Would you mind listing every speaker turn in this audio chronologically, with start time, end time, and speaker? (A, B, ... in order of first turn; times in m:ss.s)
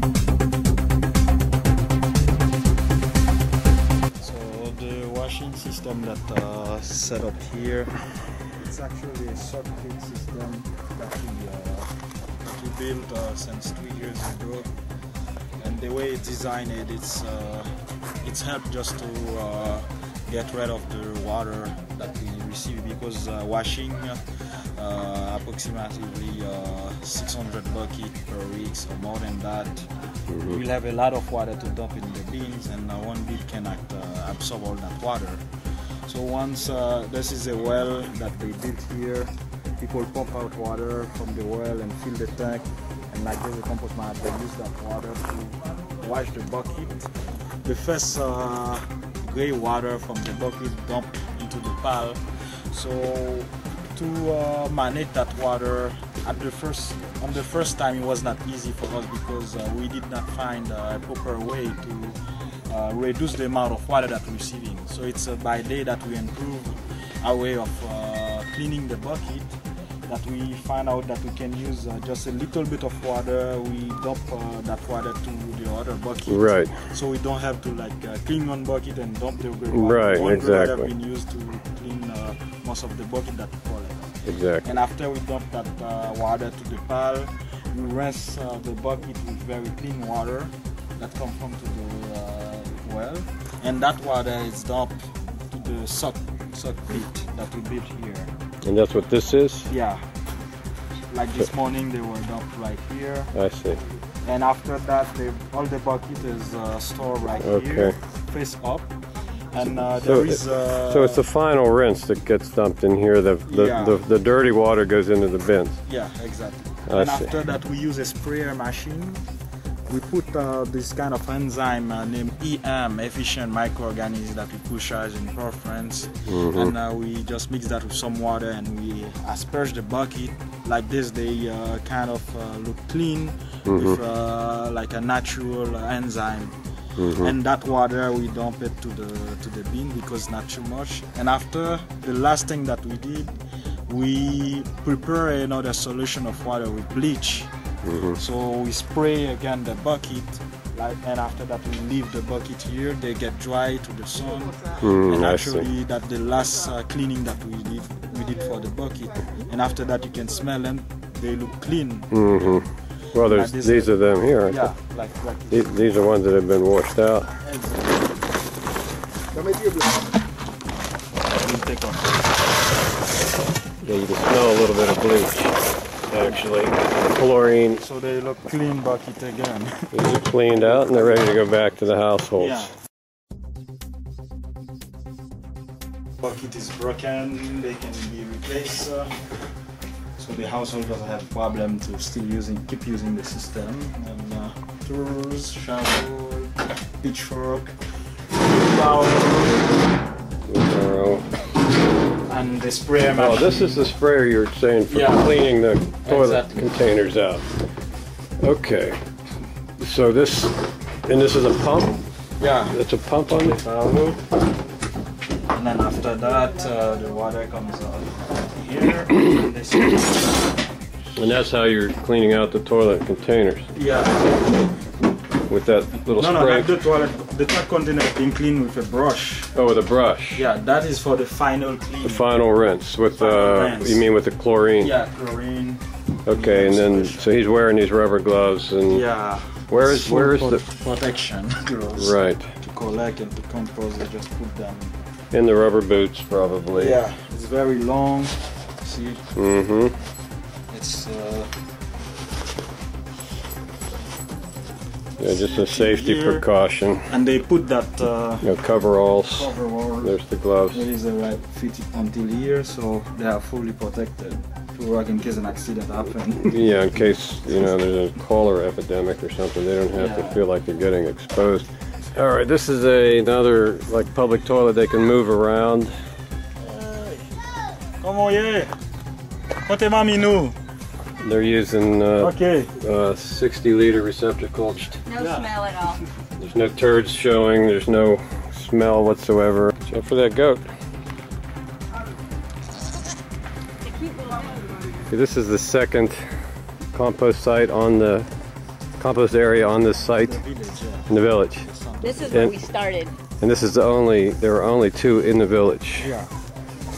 0:04.2-0:14.7 A
0:15.6-0:24.2 A
0:24.7-0:29.9 A
0:30.3-0:30.6 B
0:30.4-0:35.4 A
0:36.0-0:47.1 A
0:47.6-1:09.6 A
1:10.1-1:38.3 A
1:16.3-1:16.8 B
1:19.7-1:20.9 B
1:24.2-1:24.7 B
1:38.6-1:39.7 B
1:39.7-1:40.0 A
1:41.1-1:43.3 A
1:43.3-1:43.8 B
1:44.2-1:48.9 A
1:47.4-1:48.0 B
1:49.5-1:51.2 A
1:50.0-1:55.8 B
1:53.5-1:54.0 A
1:55.8-1:59.2 A
1:56.9-1:57.3 B
1:59.9-2:27.5 A
2:06.3-2:06.7 B
2:13.6-2:14.0 B
2:17.0-2:17.3 B
2:27.8-2:28.2 B
2:28.1-2:42.5 A
2:34.8-2:35.7 B
2:42.1-2:44.7 B
2:43.1-2:45.7 A
2:45.5-2:47.3 B
2:47.4-2:48.0 A
2:49.3-2:50.0 A
2:51.4-2:52.2 A
2:53.8-2:55.5 B
2:56.1-2:57.8 B
2:57.8-2:59.9 A
2:59.9-3:02.7 B
3:00.5-3:01.4 A
3:02.4-3:02.7 A
3:06.2-3:09.2 A
3:10.2-3:17.8 A
3:18.3-3:19.7 A
3:20.4-3:21.3 B
3:22.3-3:23.9 A
3:23.1-3:27.4 B
3:24.9-3:25.4 A
3:26.0-3:26.6 A
3:28.4-3:29.0 B
3:29.8-3:32.0 B
3:32.4-3:34.2 A
3:32.7-3:33.6 B
3:35.5-3:40.4 A
3:41.2-3:43.7 B
3:43.7-3:44.5 A
3:45.5-3:46.7 B
3:46.1-3:49.5 A
3:49.5-3:50.4 B
3:50.3-3:52.3 A
3:52.0-3:54.9 B
3:53.1-3:54.0 A
3:54.8-3:57.3 A
3:56.3-3:59.0 B
3:58.9-4:04.9 A
3:59.7-4:00.6 B
4:02.0-4:02.5 B
4:05.3-4:07.0 B
4:06.7-4:09.2 A
4:09.3-4:09.9 B
4:10.7-4:11.5 A
4:15.2-4:17.1 B
4:15.2-4:16.5 A
4:17.0-4:18.5 A
4:18.4-4:19.5 B
4:19.3-4:20.2 A
4:20.0-4:20.8 B
4:20.7-4:27.6 A
4:26.4-4:35.9 B
4:29.9-4:30.4 A
4:36.6-4:37.4 A
4:38.0-4:38.7 A
4:39.6-4:40.6 A
4:41.2-4:45.0 B
4:42.2-4:42.7 A
4:45.0-4:46.0 C
4:45.2-4:45.5 A
4:46.4-4:50.6 B
4:54.0-4:54.5 C
4:55.1-4:56.2 B
4:56.9-4:58.3 B
4:59.0-5:00.4 B
4:59.7-5:02.5 A
5:01.1-5:01.6 B
5:02.0-5:03.1 C
5:02.3-5:02.6 B
5:03.4-5:06.1 B
5:06.0-5:06.3 A